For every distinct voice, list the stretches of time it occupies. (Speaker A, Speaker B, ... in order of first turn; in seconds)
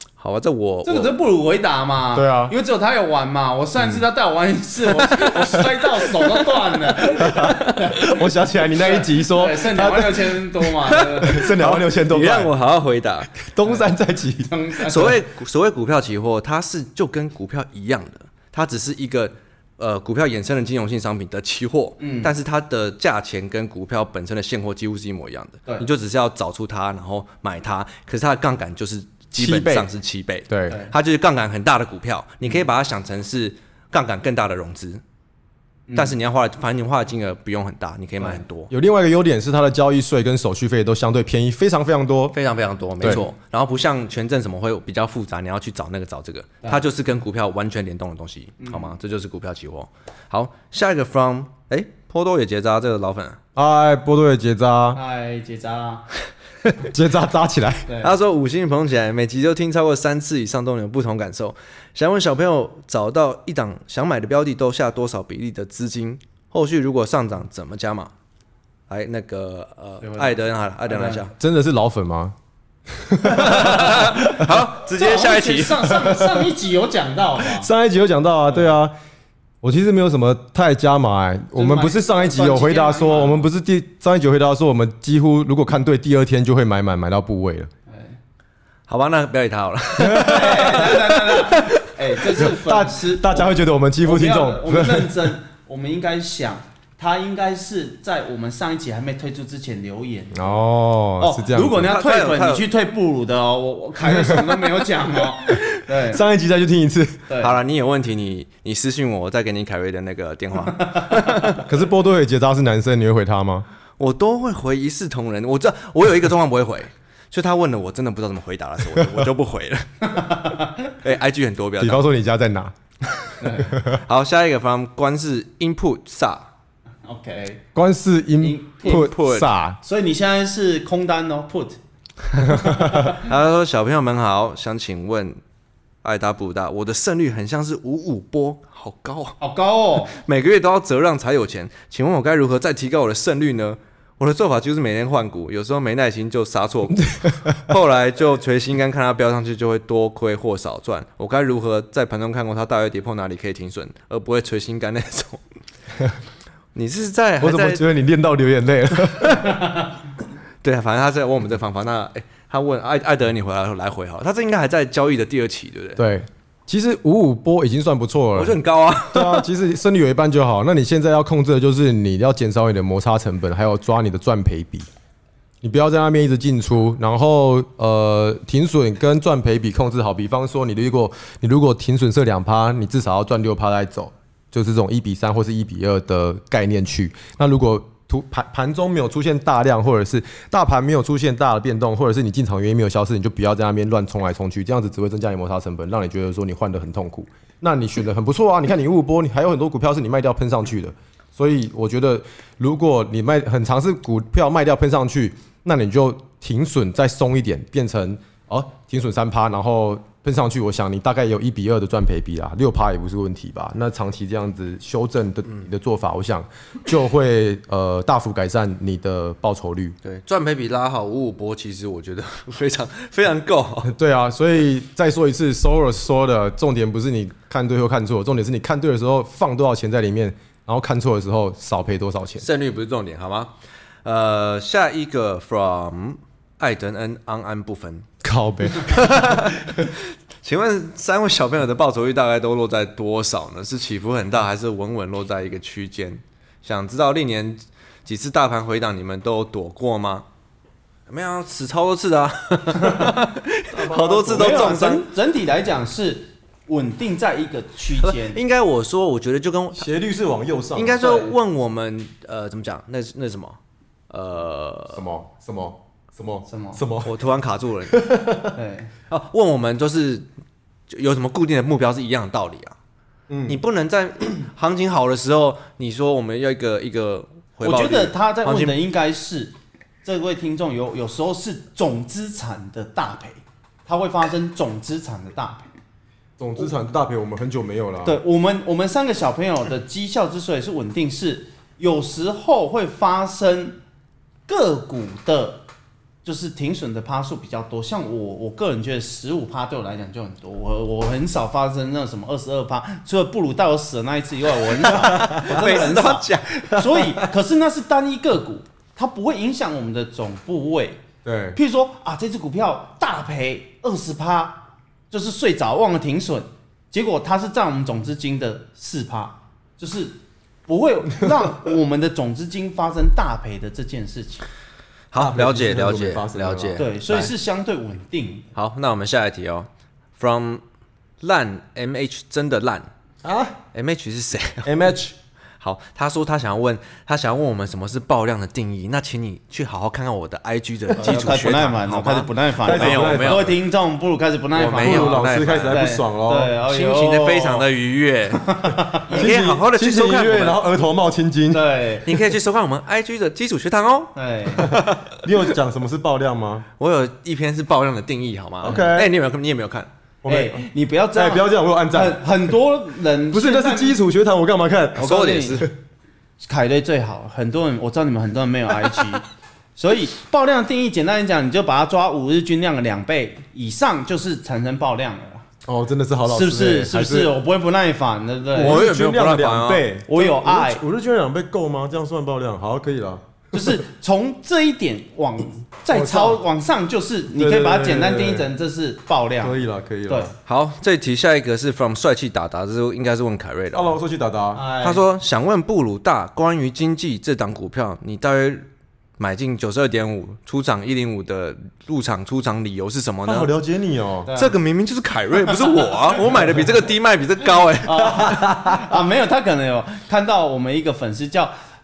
Speaker A: 0.2-1.1, 10.9-13.3, 14.9-35.0, 35.9-38.7, 42.3-53.4, 58.0-68.1, 68.9-71.3, 73.2-76.0, 88.9-91.8, 101.8-102.6, 107.4-111.6, 114.0-120.4, 121.0-122.0, 123.9-126.5, 128.8-129.5, 133.2-135.4, 136.0-139.4, 140.1-155.4, 156.7-157.8, 160.6-166.0, 168.3-169.5, 220.0-223.9, 232.4-233.5, 234.0-238.1, 238.8-250.2, 251.1-255.0, 258.0-259.9, 260.7-263.6, 264.1-265.0, 267.0-268.0, 269.1-270.2, 270.9-272.8, 273.5-278.8, 305.0-306.8, 325.1-327.3, 328.5-330.6, 331.2-332.9, 333.7-334.7, 335.6-343.5, 344.6-345.8, 346.6-350.6, 352.0-355.2, 356.8-359.9, 365.0-365.7, 378.5-379.8, 390.4-393.9, 394.8-398.6, 399.2-403.5, 404.4-408.4
Speaker B: 0.8-8.1, 8.7-11.4, 13.6-13.9, 14.4-15.2, 22.0-22.3, 35.9-36.1, 48.6-49.0, 54.9-56.0, 57.9-58.1, 70.0-70.3, 70.8-71.2, 73.6-74.2, 74.8-77.7, 81.5-83.4, 87.9-88.2, 90.1-100.5, 101.2-106.2, 107.3-107.5, 110.8-111.5, 120.0-120.9, 123.4-123.8, 127.0-127.6, 128.4-129.1, 129.8-131.8, 132.3-133.2, 139.4-140.1, 252.9-253.1, 254.3-258.4, 261.0-261.3, 266.5-266.8, 268.5-268.9, 277.6-285.6, 288.0-293.8, 294.5-295.6, 296.2-311.0, 311.5-324.4, 326.8-328.4, 341.0-347.7, 348.4-349.2, 351.5-352.1, 354.1-354.7, 360.3-364.0, 365.0-365.6, 366.4-369.2, 369.8-375.5, 376.3-378.8, 380.1-380.8, 383.5-389.6, 394.5-395.0, 404.2-404.6, 407.9-411.5
Speaker C: 2.1-2.5, 7.1-10.5, 11.2-12.5, 13.3-14.5, 29.3-29.9, 30.5-30.8, 38.7-42.4, 43.0-43.2, 53.5-55.0, 56.8-57.9, 71.4-72.3, 72.9-74.6, 76.0-76.5, 77.4-78.9, 79.6-87.7, 90.0-90.7, 92.4-95.3, 100.3-101.9, 104.0-104.6, 105.5-107.2, 111.5-113.7, 121.8-122.7, 123.7-124.0, 127.7-129.8, 132.5-133.1, 157.4-159.9, 166.0-168.6, 169.1-174.9, 175.6-219.9, 223.8-232.5, 238.2-239.9, 253.7-254.7, 259.7-261.2, 264.9-267.1, 267.9-268.5, 273.3-273.6, 286.4-288.2, 304.9-305.6, 306.8-307.1, 311.2-311.6, 325.1-326.8, 333.2-333.6, 334.6-335.1, 341.0-341.5, 342.6-343.5, 344.8-346.5, 349.1-351.6, 354.6-356.6, 358.6-359.1, 360.2-362.5, 363.3-365.7, 375.6-377.3, 378.5-383.8, 385.9-386.4, 387.3-388.5, 389.4-390.3, 393.7-394.6, 403.2-404.3, 408.2-408.8